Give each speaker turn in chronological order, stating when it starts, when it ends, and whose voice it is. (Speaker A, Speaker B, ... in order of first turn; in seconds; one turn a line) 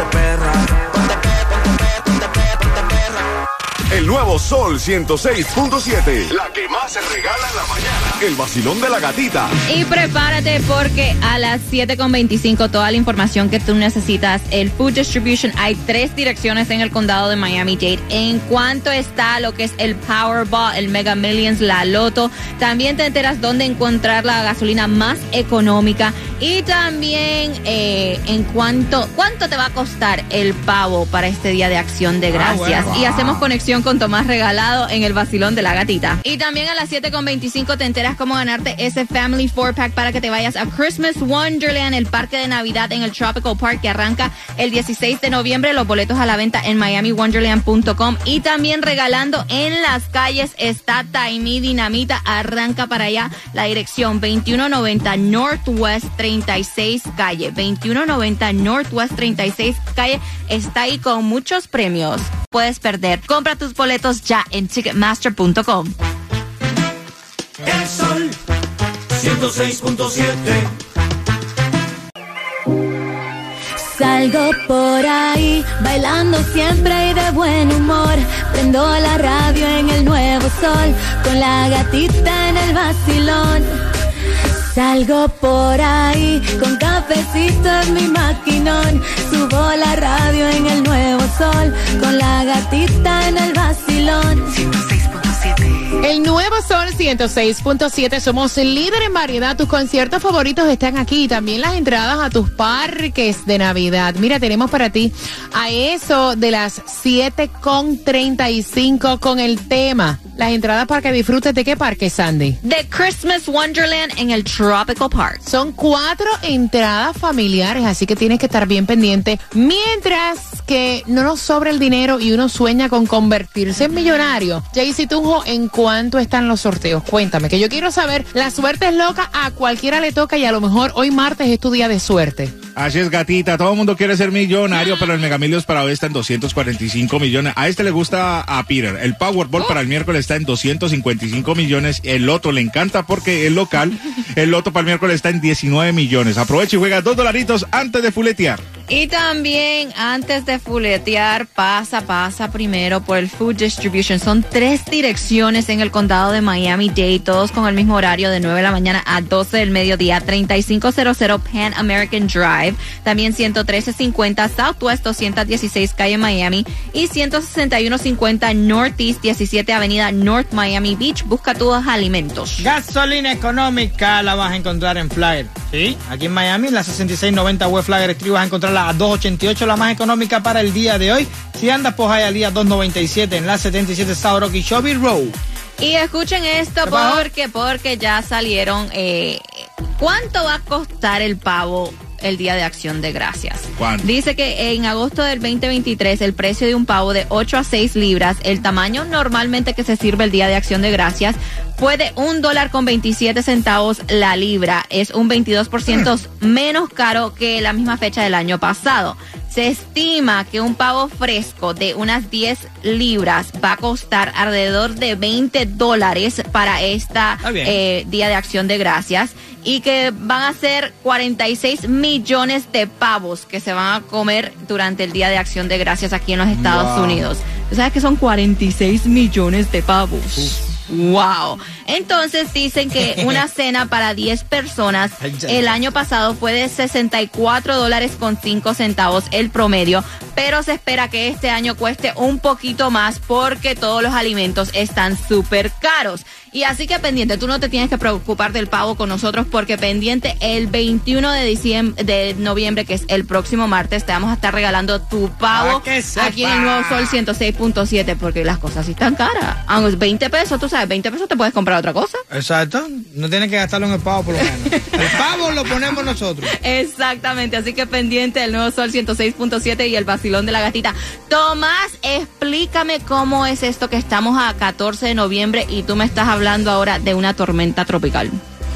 Speaker A: 4.0-6.2
Speaker A: 8.3-9.4
Speaker B: 9.7-65.9
Speaker C: 32.3-33.1
Speaker D: 32.9-33.5
Speaker E: 73.8-83.7
Speaker E: 84.7-94.5
Speaker F: 94.6-112.6
Speaker B: 112.6-115.4
Speaker F: 115.4-132.5
Speaker D: 132.8-148.6
Speaker B: 148.9-172.7
Speaker C: 172.6-185.3
Speaker B: 185.8-189.4
Speaker C: 186.8-187.3
Speaker B: 190.0-262.2
Speaker D: 193.8-194.1
Speaker C: 217.4-217.8
Speaker C: 226.5-227.3
Speaker C: 233.1-233.4
Speaker C: 235.2-235.9
Speaker C: 255.5-257.2
Speaker C: 262.3-266.5
Speaker B: 266.5-278.4